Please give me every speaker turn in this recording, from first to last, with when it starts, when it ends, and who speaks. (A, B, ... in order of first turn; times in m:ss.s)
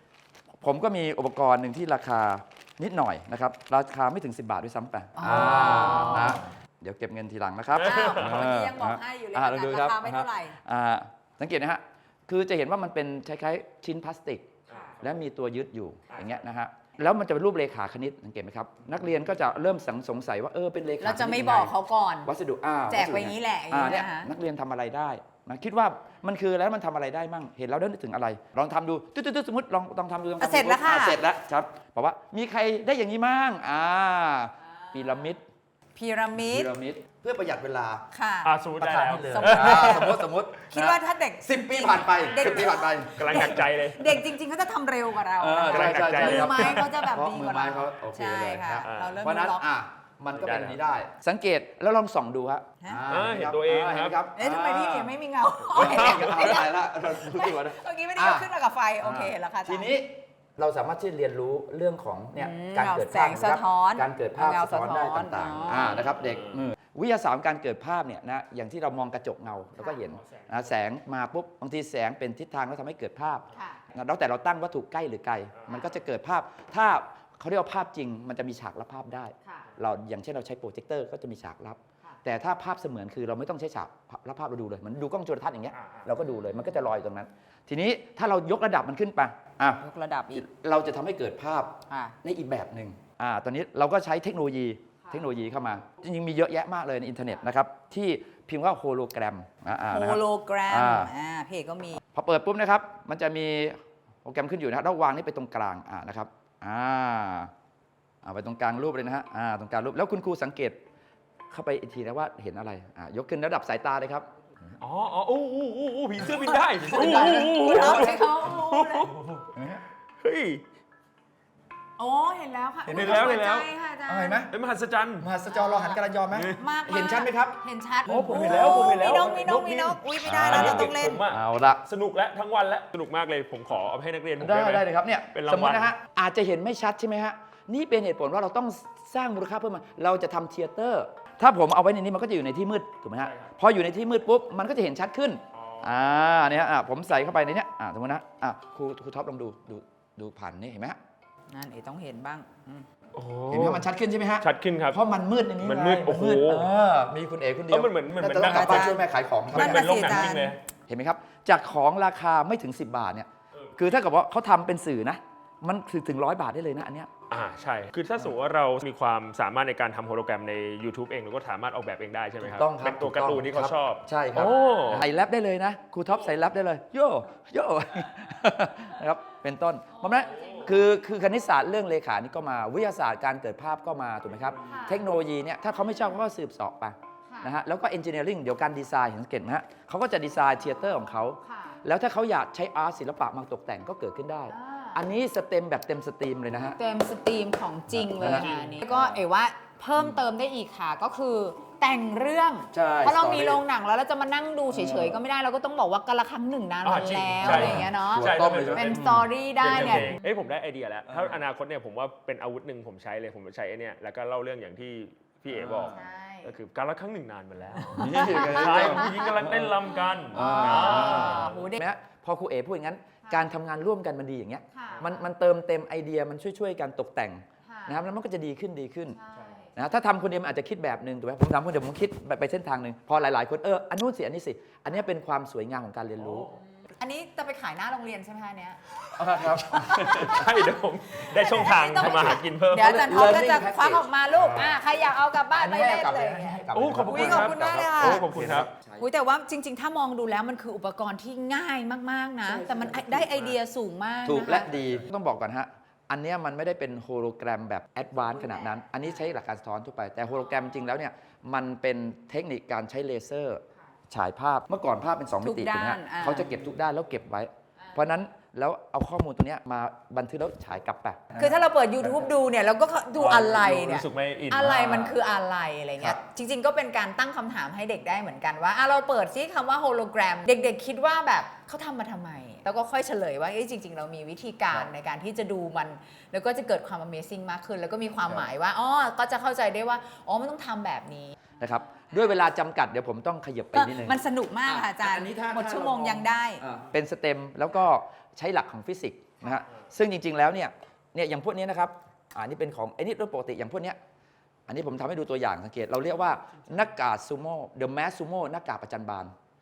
0:00.6-0:21.7 A
0:05.2-0:06.4 B
0:05.5-0:06.2 C
0:07.8-0:10.6 B
0:07.8-0:08.4 C
0:14.7-0:15.0 B
0:14.7-0:15.0 C
0:21.0-0:22.3 B
0:22.2-0:35.4 A
0:22.9-0:24.3 B
0:30.4-0:31.2 B
0:34.6-0:35.3 B
0:36.0-0:36.7 B
0:36.4-0:38.0 A
0:38.1-0:38.6 B
0:38.4-0:40.2 C
0:38.8-0:43.5 A
0:39.3-0:40.2 B
0:40.7-0:49.6 B
0:42.4-0:44.2 C
0:45.4-0:55.2 A
0:45.7-0:46.9 C
0:48.8-0:49.2 C
0:50.3-0:50.8 C
0:53.1-0:54.2 C
0:54.4-0:59.9 B
0:55.7-0:58.5 A
0:55.8-0:56.5 C
0:59.0-1:29.8 A
1:02.4-1:06.1 B
1:05.7-1:06.6 C
1:10.1-1:10.6 C
1:13.5-1:13.8 B
1:15.7-1:15.9 B
1:19.4-1:19.7 B
1:25.7-1:26.1 C
1:26.2-1:26.7 B
1:29.8-1:30.4 B
1:30.3-1:41.1 A
1:31.9-1:32.1 B
1:39.9-1:42.0 B
1:42.1-1:47.5 A
1:48.2-1:50.8 A
1:51.5-1:54.7 A
1:54.8-1:59.3 C
1:56.2-1:58.1 A
1:56.9-1:59.1 B
1:59.2-1:59.8 A
2:00.2-2:00.6 C
2:02.0-2:04.4 B
2:02.8-2:03.4 A
2:02.9-2:03.7 C
2:04.0-2:04.5 A
2:04.5-2:05.3 C
2:05.2-2:07.6 A
2:05.4-2:06.0 B
2:06.3-2:06.6 C
2:06.6-2:11.2 B
2:08.1-2:15.9 C
2:08.2-2:09.4 A
2:10.2-2:11.8 A
2:14.4-2:31.0 A
2:23.2-2:23.5 C
2:25.5-2:25.9 C
2:31.5-2:32.8 B
2:33.1-2:33.8 C
2:33.5-2:40.2 A
2:34.4-2:35.0 C
2:35.6-2:36.7 C
2:37.7-2:39.0 C
2:38.4-2:40.5 B
2:39.5-2:40.6 C
2:40.9-2:47.1 A
2:47.3-2:55.1 C
2:52.4-3:16.8 A
2:54.4-2:55.0 B
2:59.9-3:00.8 B
3:00.3-3:00.7 C
3:04.6-3:05.0 B
3:07.3-3:07.5 B
3:11.4-3:11.8 B
3:14.5-3:15.0 B
3:16.8-3:30.2 B
3:17.9-3:19.2 A
3:18.2-3:19.0 C
3:22.7-3:23.6 A
3:24.7-3:25.2 A
3:26.8-3:41.6 C
3:27.4-3:30.1 A
3:31.1-3:31.4 A
3:35.5-3:36.0 A
3:35.9-3:36.5 B
3:37.8-3:39.3 B
3:37.9-3:49.2 A
3:40.3-3:41.8 B
3:44.7-3:45.2 B
3:47.7-3:48.0 B
3:49.1-3:49.7 B
3:49.7-3:56.5 A
3:56.2-3:56.5 C
3:56.8-3:58.8 B
3:59.1-4:00.2 A
3:59.4-4:08.2 B
3:59.6-4:03.0 C
4:02.0-4:04.8 A
4:05.5-4:09.0 A
4:06.7-4:08.7 C
4:09.0-4:14.7 B
4:12.4-4:13.6 A
4:14.2-4:32.1 A
4:18.2-4:19.2 B
4:20.4-4:20.9 B
4:25.4-4:26.5 B
4:27.8-4:28.0 B
4:31.4-4:52.2 B
4:33.2-4:35.1 C
4:51.6-5:04.0 A
4:53.7-4:56.6 B
5:04.7-5:09.3 A